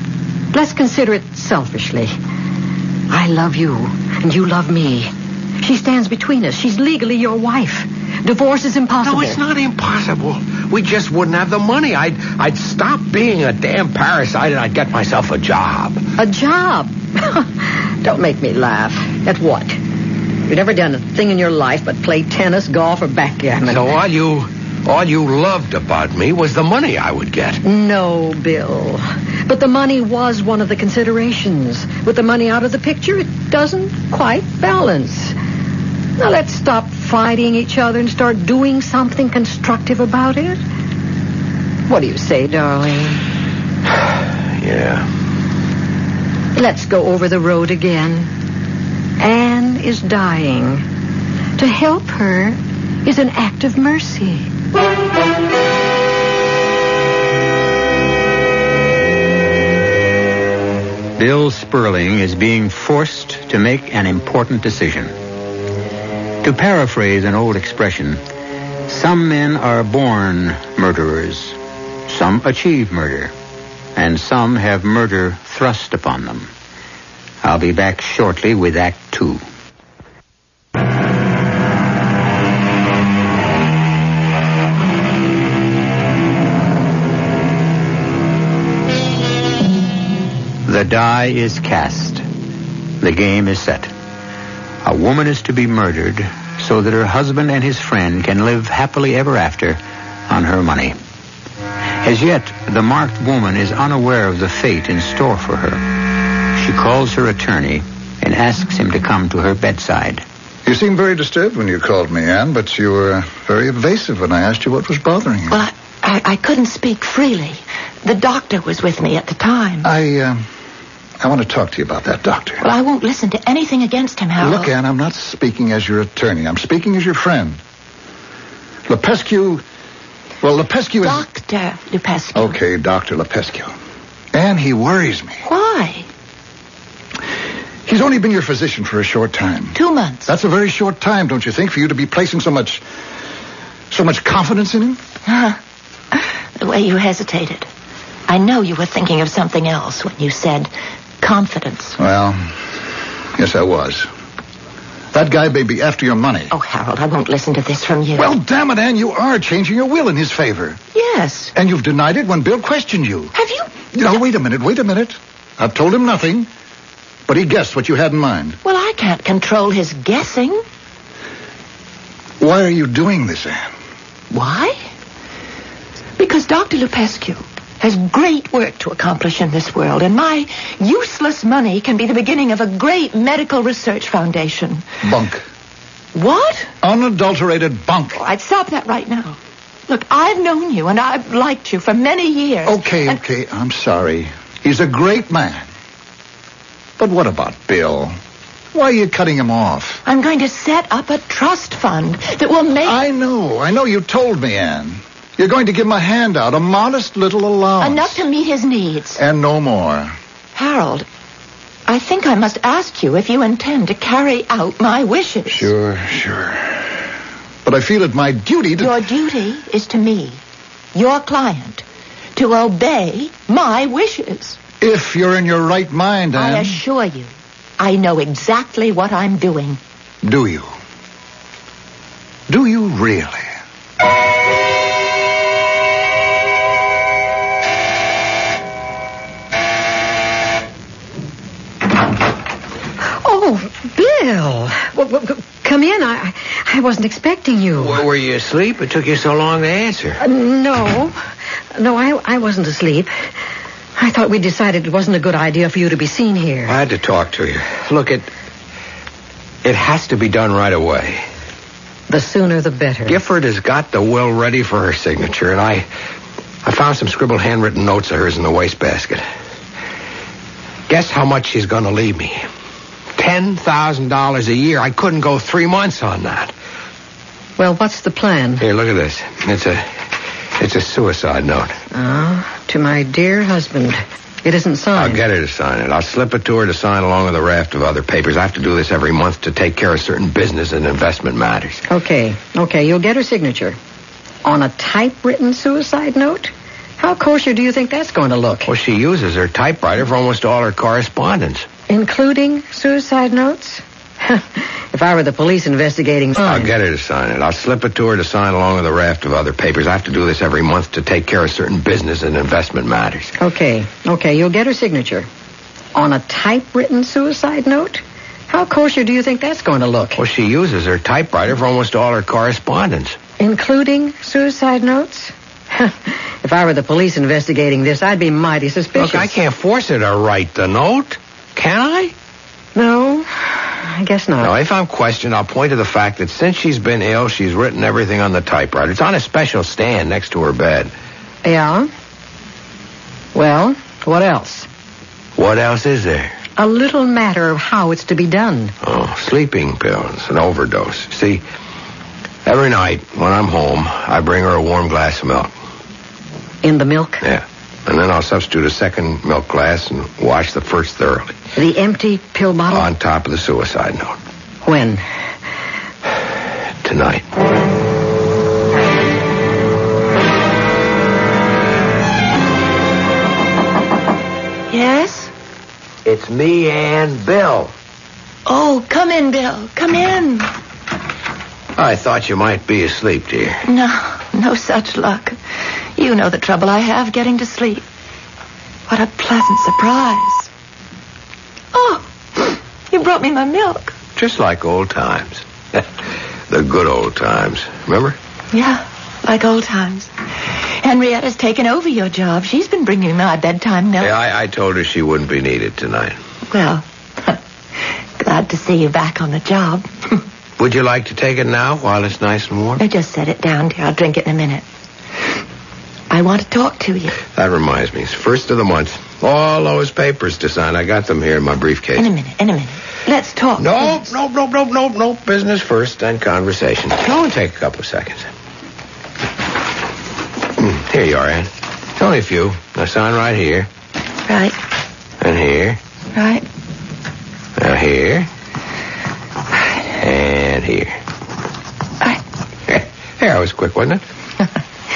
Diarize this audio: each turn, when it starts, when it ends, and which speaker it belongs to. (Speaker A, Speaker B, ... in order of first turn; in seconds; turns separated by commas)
Speaker A: 0.5-2.1, Speaker A: 3.1-9.4, Speaker B: 9.0-16.0, Speaker A: 16.2-19.8, Speaker A: 20.5-23.8, Speaker B: 23.6-27.6, Speaker A: 27.6-35.4, Speaker A: 36.2-40.6, Speaker A: 41.9-43.2, Speaker B: 44.6-45.1, Speaker A: 46.5-48.3, Speaker A: 49.2-50.9, Speaker A: 51.6-54.5, Speaker C: 61.2-65.2, Speaker C: 66.4-68.2, Speaker C: 68.9-73.3, Speaker C: 74.0-76.5, Speaker C: 77.4-79.4, Speaker C: 90.7-92.2, Speaker C: 93.0-93.9, Speaker C: 94.8-101.0, Speaker C: 102.0-110.2, Speaker D: 110.7-115.6, Speaker E: 115.5-119.9, Speaker D: 119.8-120.4, Speaker D: 121.2-122.6, Speaker E: 122.6-124.7, Speaker D: 124.4-127.6, Speaker D: 128.9-129.6, Speaker D: 130.4-131.2, Speaker E: 131.0-132.6, Speaker D: 132.3-133.7, Speaker D: 134.3-135.4, Speaker E: 135.4-136.1, Speaker D: 137.9-142.8, Speaker E: 139.8-140.3, Speaker D: 143.9-145.0, Speaker E: 145.3-145.6, Speaker E: 146.1-147.7, Speaker E: 148.3-152.0, Speaker D: 152.0-152.4, Speaker D: 153.4-154.1, Speaker D: 155.1-156.5, Speaker E: 156.5-158.3, Speaker D: 158.2-160.8, Speaker E: 160.9-161.5, Speaker D: 161.6-163.3, Speaker E: 163.3-163.9, Speaker D: 163.9-166.5, Speaker D: 167.3-168.6, Speaker E: 168.6-170.6, Speaker D: 172.4-173.7, Speaker E: 174.3-174.8, Speaker E: 176.2-184.8, Speaker D: 185.0-185.4, Speaker E: 186.2-186.7, Speaker D: 186.8-188.2, Speaker E: 188.1-189.4, Speaker E: 189.9-193.2, Speaker D: 192.7-195.7, Speaker D: 197.0-198.2, Speaker D: 198.7-200.0, Speaker E: 200.1-203.0, Speaker D: 202.8-208.2, Speaker E: 207.8-209.2, Speaker D: 209.2-210.1, Speaker E: 210.6-211.1, Speaker E: 211.9-215.7, Speaker D: 215.5-216.9, Speaker D: 217.7-218.9, Speaker E: 218.8-220.4, Speaker E: 220.9-221.8, Speaker E: 222.4-224.6, Speaker D: 224.8-226.8, Speaker E: 226.3-229.8, Speaker D: 230.2-230.7, Speaker D: 232.5-233.5, Speaker A: 243.2-248.0, Speaker B: 247.8-250.2, Speaker A: 250.2-251.2, Speaker A: 251.8-253.1, Speaker A: 254.0-256.8, Speaker B: 256.7-258.3, Speaker B: 259.6-261.2, Speaker A: 262.1-263.2, Speaker B: 263.1-265.9, Speaker B: 266.6-269.2, Speaker B: 270.9-272.4, Speaker B: 273.2-276.5, Speaker A: 277.6-278.6, Speaker B: 278.6-280.0, Speaker B: 280.6-281.8, Speaker A: 281.9-285.2, Speaker B: 284.9-291.8, Speaker A: 291.9-293.8, Speaker A: 294.4-298.7, Speaker B: 298.7-301.7, Speaker A: 301.9-306.7, Speaker B: 306.4-313.3, Speaker A: 313.4-315.3, Speaker A: 315.9-320.2, Speaker B: 320.2-323.2, Speaker A: 323.4-329.3, Speaker B: 328.9-332.1, Speaker A: 332.8-334.5, Speaker B: 334.4-340.9, Speaker A: 341.4-341.9, Speaker A: 343.3-344.7, Speaker B: 345.4-346.4, Speaker A: 346.6-348.7, Speaker B: 348.8-351.4, Speaker B: 352.4-355.5, Speaker A: 356.6-357.2, Speaker B: 357.2-361.4, Speaker A: 361.6-362.9, Speaker B: 362.7-364.2, Speaker A: 364.6-365.0, Speaker B: 366.8-367.3, Speaker E: 374.7-375.3, Speaker B: 376.1-377.7, Speaker E: 378.5-380.5, Speaker B: 381.8-383.6, Speaker E: 383.6-385.4, Speaker E: 386.0-387.8, Speaker E: 388.9-390.5, Speaker E: 391.7-394.0, Speaker B: 394.2-395.9, Speaker B: 396.5-398.2, Speaker E: 398.5-400.1, Speaker E: 400.8-404.1, Speaker B: 404.0-406.2, Speaker E: 406.5-407.4, Speaker E: 408.2-410.2, Speaker B: 410.6-412.8, Speaker E: 412.8-414.6, Speaker E: 416.1-417.2, Speaker B: 417.3-422.1, Speaker E: 422.0-424.1, Speaker B: 423.6-428.3, Speaker B: 430.6-433.7, Speaker E: 434.3-434.6, Speaker B: 435.2-435.8, Speaker E: 436.1-436.5, Speaker B: 437.6-438.3, Speaker B: 439.9-441.0, Speaker B: 442.7-444.0